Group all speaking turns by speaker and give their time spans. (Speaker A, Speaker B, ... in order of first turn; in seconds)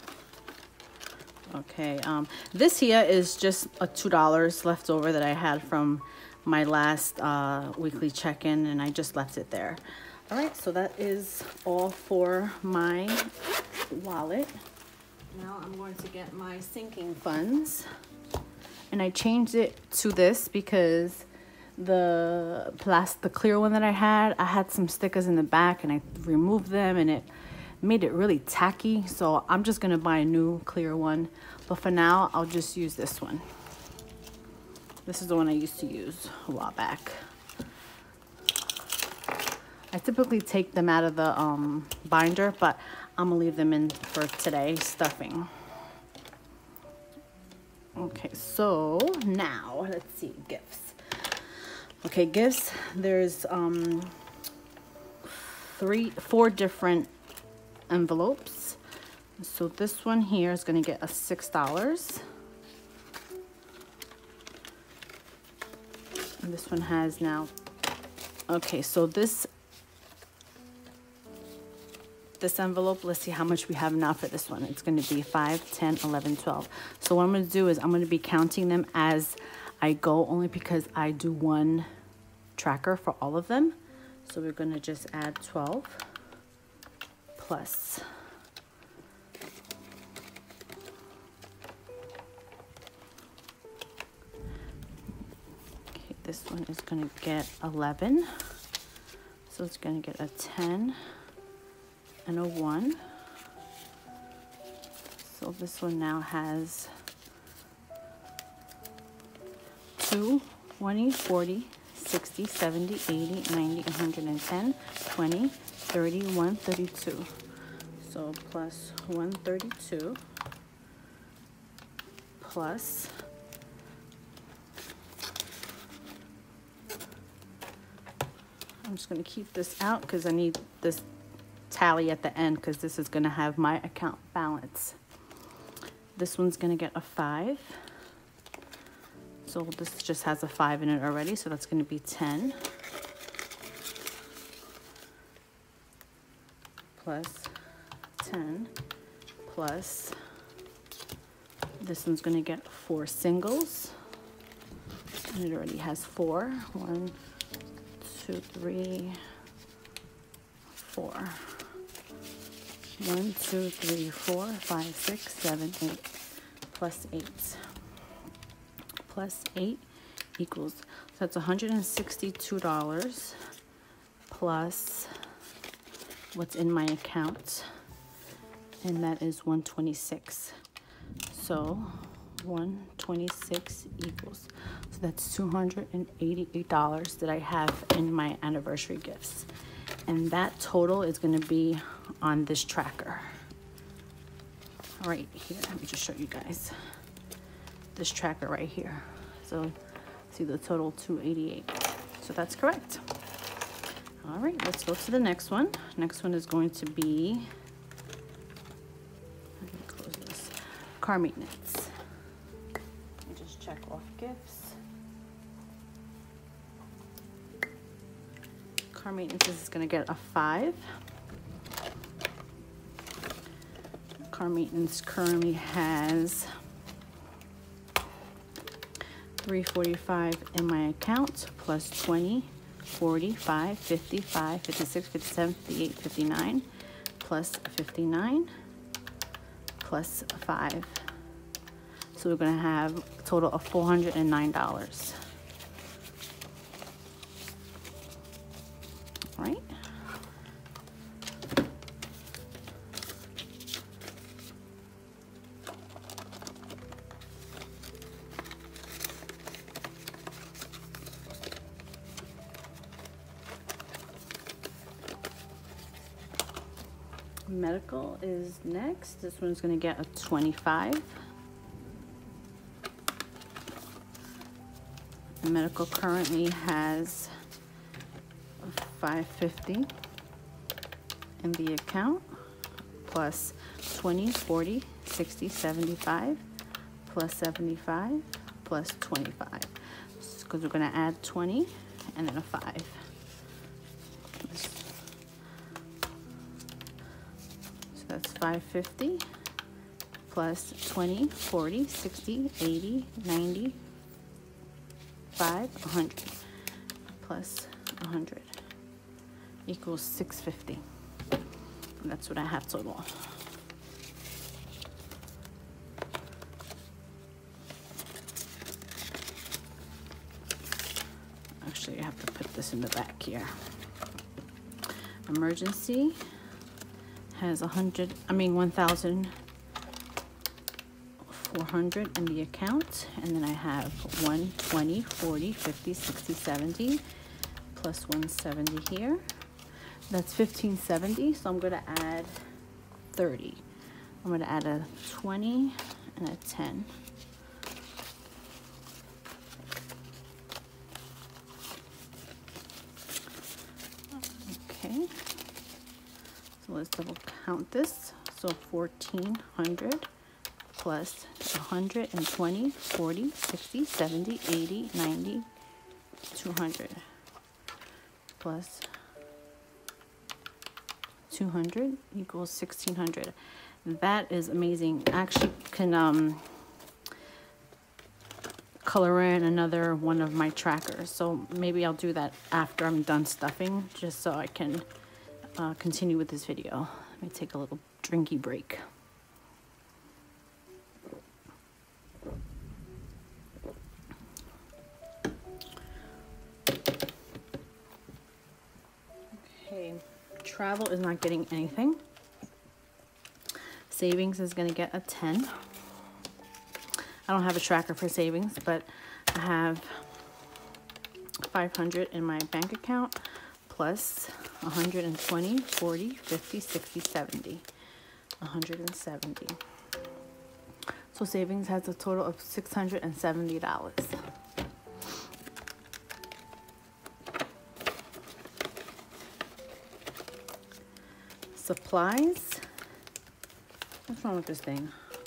Speaker A: 1.5-13.3, 13.9-14.5, 15.3-17.9, 18.9-27.3, 27.8-33.5, 35.1-37.2, 39.9-45.5, 48.0-54.2, 55.2-57.1, 57.9-58.8, 59.4-62.2, 66.4-67.5, 68.5-69.5, 72.4-81.9, 82.6-86.1, 87.4-88.0, 95.9-98.5, 99.5-101.0, 102.3-103.0, 105.2-106.9, 110.0-117.3, 118.0-120.2, 122.4-123.1, 128.8-131.1, 131.7-135.0, 136.2-137.8, 139.4-142.6, 146.9-147.5, 148.2-148.7, 149.4-150.2, 151.8-154.0, 155.3-157.2, 158.0-159.2, 160.7-161.6, 163.0-166.1, 166.7-167.6, 169.0-169.8, 170.4-173.4, 174.3-175.1, 176.3-177.7, 178.8-180.6, 181.3-189.5, 190.1-193.4, 195.0-196.8, 197.9-199.8, 200.3-203.0, 204.2-207.5, 209.6-211.9, 213.3-214.8, 218.9-220.8, 224.3-226.5, 229.4-236.7, 237.2-238.5, 239.8-241.1, 242.1-245.2, 249.4-249.7, 267.5-271.1, 275.4-277.3, 278.6-279.9, 281.4-282.3, 283.0-286.4, 287.0-293.0, 294.4-294.9, 297.9-299.2, 300.3-303.8, 305.3-306.4, 307.1-308.5, 309.7-310.8, 312.0-313.3, 321.6-323.6, 325.3-326.2, 327.3-329.3, 331.2-337.0, 337.7-339.2, 340.1-342.4, 343.1-343.6, 344.2-346.9, 354.3-355.1, 356.6-360.1, 360.8-365.5, 366.3-367.1, 368.4-368.9, 371.3-376.5, 378.9-384.9, 385.6-388.8, 399.4-402.0, 403.9-405.5, 407.3-410.0, 411.4-417.7, 418.4-419.6, 421.1-424.2, 431.5-432.6, 434.1-434.9